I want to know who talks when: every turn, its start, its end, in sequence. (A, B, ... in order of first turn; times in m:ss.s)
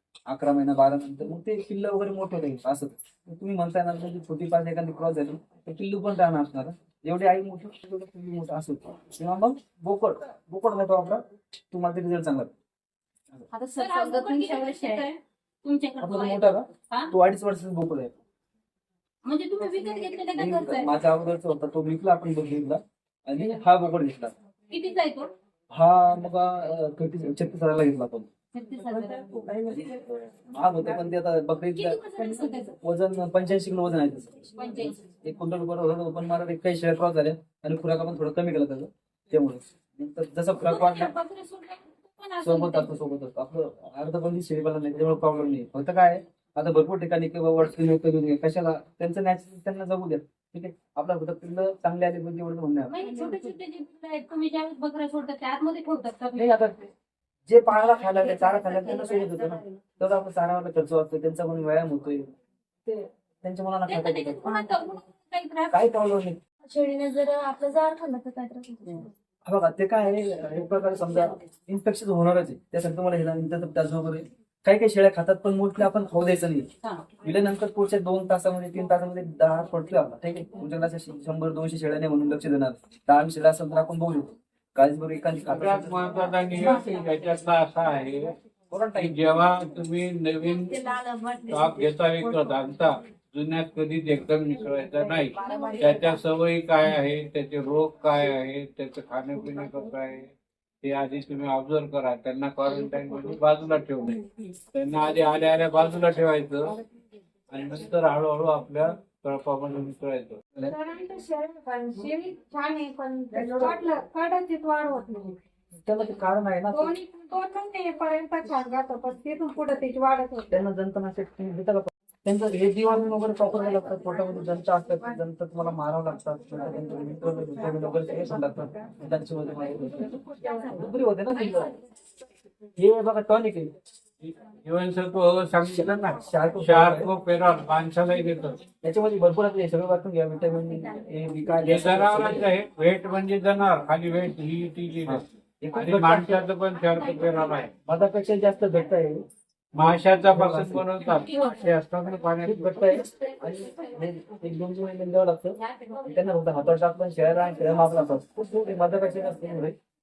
0:00.3-0:12.5 A
0:13.5-0:15.1 B
0:13.6-0:17.1 C
0:16.0-0:18.1 A
0:19.2-0:20.9 C
0:20.4-0:24.4 A
0:24.7-0:25.3 C
0:25.7-0:28.3 A
0:28.5-0:29.4 C
0:29.3-0:41.1 A
0:31.8-0:32.7 C
0:34.6-0:35.0 C
0:40.6-0:43.0 C
0:42.4-0:53.0 A
0:52.9-0:56.5 C
0:56.4-0:56.9 A
0:57.5-1:02.2 A
1:02.8-1:04.7 A
1:03.9-1:05.8 C
1:05.7-1:06.4 A
1:06.7-1:09.1 B
1:09.4-1:16.7 A
1:17.2-1:26.3 A
1:25.5-1:28.3 D
1:28.7-1:29.0 A
1:28.9-1:30.8 D
1:30.6-1:32.4 B
1:31.5-1:46.8 D
1:35.1-1:36.1 B
1:47.5-1:50.4 D
1:50.7-1:55.4 B
1:53.4-1:53.7 A
1:55.8-1:57.0 A
1:56.7-2:00.4 B
2:00.5-2:11.8 A
2:12.8-2:13.7 A
2:14.2-2:18.6 D
2:16.1-2:17.1 A
2:18.8-2:22.5 A
2:21.6-2:27.7 D
2:25.1-2:26.5 A
2:27.9-2:29.2 A
2:29.7-2:32.7 D
2:29.8-2:30.9 A
2:32.4-2:39.8 A